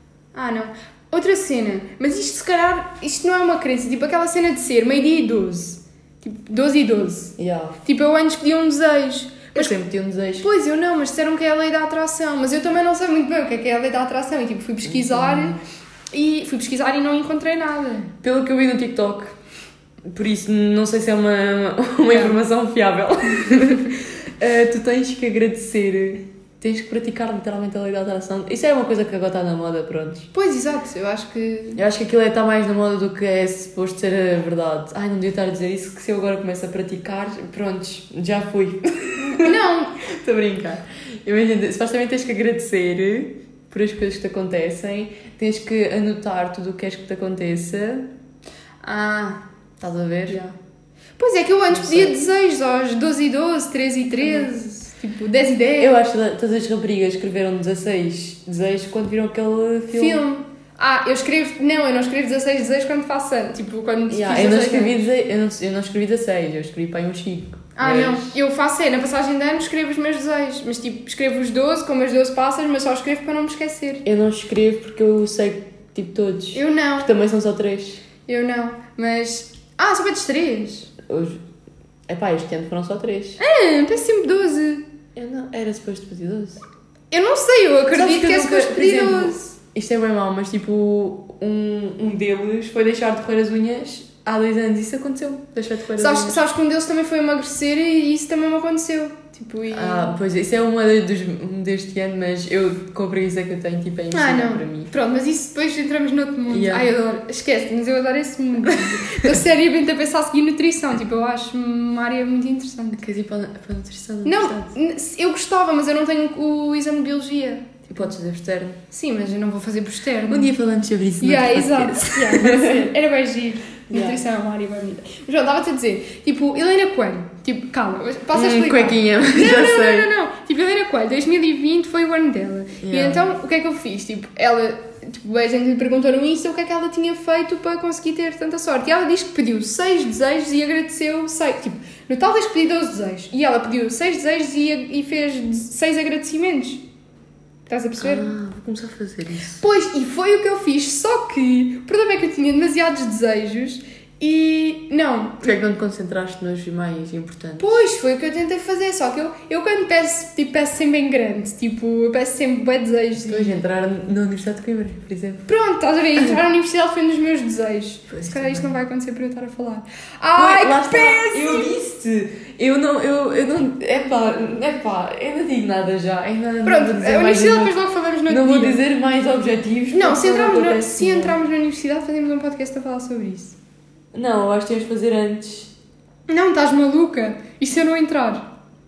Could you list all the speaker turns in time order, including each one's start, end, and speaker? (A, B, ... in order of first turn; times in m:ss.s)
0:00.3-0:09.8 A
0:07.4-0:07.8 B
0:09.5-0:10.5 B
0:10.4-0:15.6 A
0:14.8-0:15.6 B
0:16.1-0:18.1 A
0:18.2-0:19.4 B
0:20.1-0:30.3 B
0:22.1-0:22.4 A
0:30.3-0:31.8 A
0:31.8-0:39.5 B
0:39.2-0:40.0 A
0:40.1-0:48.1 B
0:48.8-0:49.4 A
0:49.8-0:50.4 B
0:50.3-0:50.5 A
0:51.2-0:55.9 A
0:51.7-0:52.2 B
0:54.2-0:54.6 B
0:55.8-1:00.2 B
0:59.9-1:05.0 A
1:04.1-1:08.4 B
1:07.8-1:14.0 A
1:14.0-1:18.0 B
1:16.5-1:17.1 A
1:18.2-1:20.9 A
1:21.1-1:21.4 B
1:22.1-1:23.4 B
1:23.4-1:24.8 A
1:25.2-1:26.6 B
1:27.1-1:29.5 A
1:27.9-1:36.4 B
1:36.0-1:40.1 A
1:39.7-1:44.9 B
1:44.1-1:53.0 A
1:46.5-1:46.9 B
1:48.7-1:49.2 B
1:53.0-1:54.7 B
1:54.2-1:57.9 A
1:57.9-1:58.8 B
1:58.9-2:00.5 A
2:00.3-2:02.9 B
2:01.2-2:26.8 A
2:03.9-2:04.2 B
2:08.3-2:10.1 B
2:12.8-2:13.3 B
2:27.7-2:28.3 A
2:28.0-2:29.6 B
2:29.6-2:35.5 A
2:35.4-2:37.8 B
2:37.6-2:43.6 A
2:43.2-2:45.5 B
2:45.5-2:51.8 A
2:48.1-2:48.7 B
2:50.4-2:57.8 B
2:56.6-2:58.8 A
2:58.3-3:01.4 B
2:59.9-3:03.6 A
3:04.1-3:05.7 B
3:06.3-3:08.5 A